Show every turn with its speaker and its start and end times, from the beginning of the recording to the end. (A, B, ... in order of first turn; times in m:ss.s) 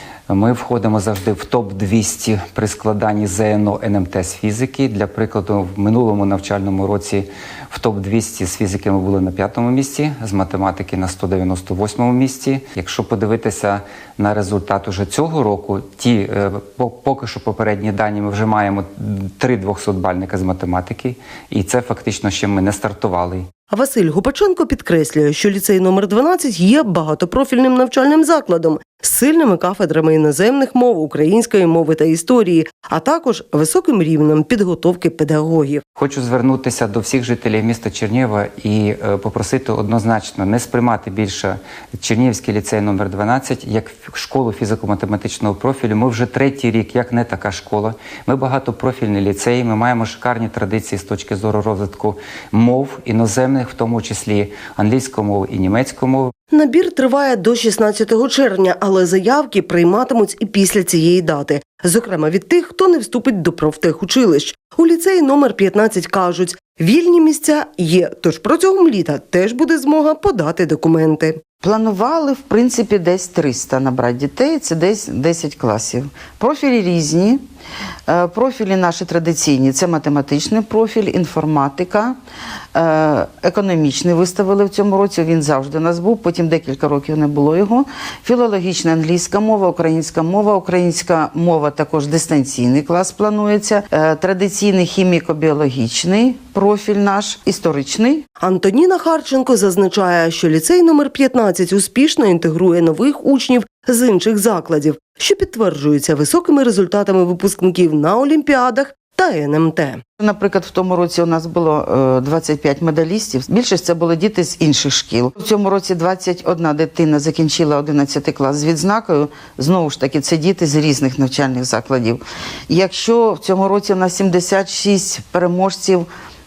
0:00.3-0:23.4 A
0:23.7-0:35.8 B
0:36.0-0:56.3 A
0:56.5-1:11.4 B
1:11.6-1:17.4 C
1:18.1-1:22.2 C
1:22.7-1:38.2 C
1:38.4-1:50.0 B
1:50.2-2:06.1 C